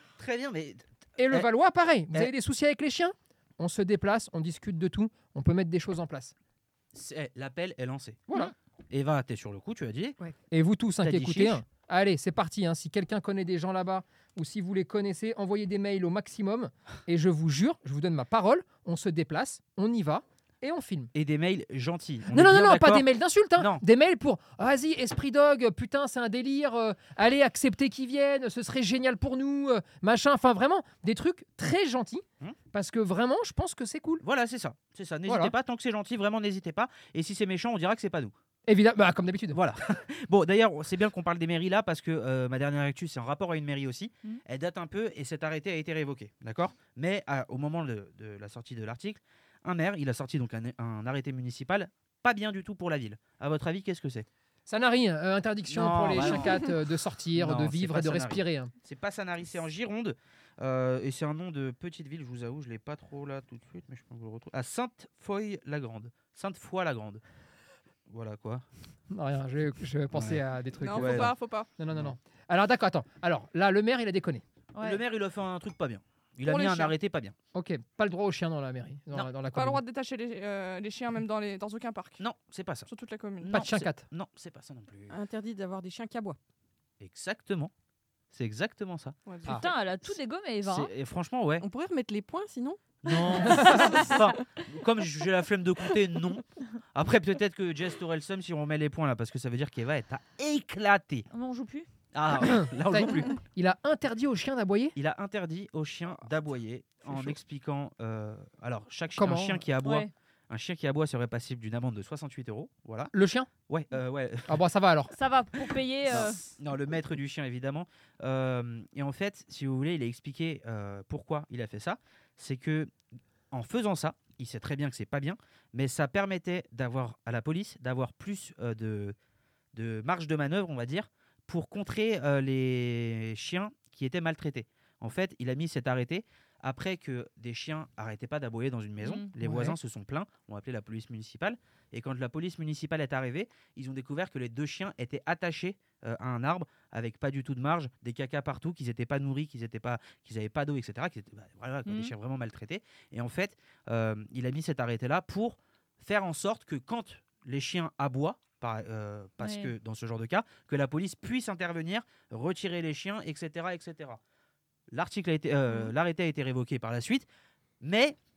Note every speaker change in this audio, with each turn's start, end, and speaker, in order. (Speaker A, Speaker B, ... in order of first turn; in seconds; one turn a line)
Speaker A: 0.2-1.4
Speaker B: 1.2-6.3
Speaker A: 6.9-8.2
Speaker A: 8.9-10.2
Speaker B: 10.5-21.1
Speaker A: 11.0-11.6
Speaker A: 21.1-23.8
Speaker B: 22.3-34.2
Speaker A: 34.2-38.3
Speaker B: 35.3-35.5
Speaker B: 38.7-39.6
Speaker A: 39.5-54.3
Speaker B: 54.7-58.7
Speaker A: 55.7-56.7
Speaker A: 57.3-67.2
Speaker A: 68.1-68.6
Speaker B: 69.1-74.4
Speaker A: 70.1-70.4
Speaker C: 70.8-71.7
Speaker A: 70.9-71.3
Speaker D: 74.7-75.0
Speaker A: 74.8-77.3
Speaker C: 76.4-76.9
Speaker B: 77.5-79.8
Speaker C: 79.4-82.2
Speaker A: 82.2-82.9
Speaker C: 82.9-83.5
Speaker A: 83.4-85.2
Speaker B: 83.5-84.0
Speaker E: 85.1-86.4
Speaker A: 87.0-87.7
Speaker A: 88.3-89.2
Speaker C: 89.3-89.6
Speaker D: 89.6-90.9
Speaker A: 90.6-91.7
Speaker E: 91.6-94.2
Speaker A: 93.0-101.3
Speaker D: 101.3-101.9
Speaker A: 102.1-103.4
Speaker B: 102.3-104.9
Speaker A: 105.0-113.1
Speaker B: 109.2-109.6
Speaker D: 109.8-110.1
Speaker B: 113.1-113.5
Speaker A: 113.7-114.6
Speaker B: 114.5-115.1
Speaker D: 115.1-116.4
Speaker A: 116.0-122.9
Speaker A: 123.5-129.2
Speaker A: 129.7-164.2
Speaker D: 139.0-139.3
Speaker B: 139.4-139.8
Speaker D: 151.8-152.1
Speaker D: 159.4-159.7
Speaker A: 164.9-167.3
Speaker A: 167.8-168.2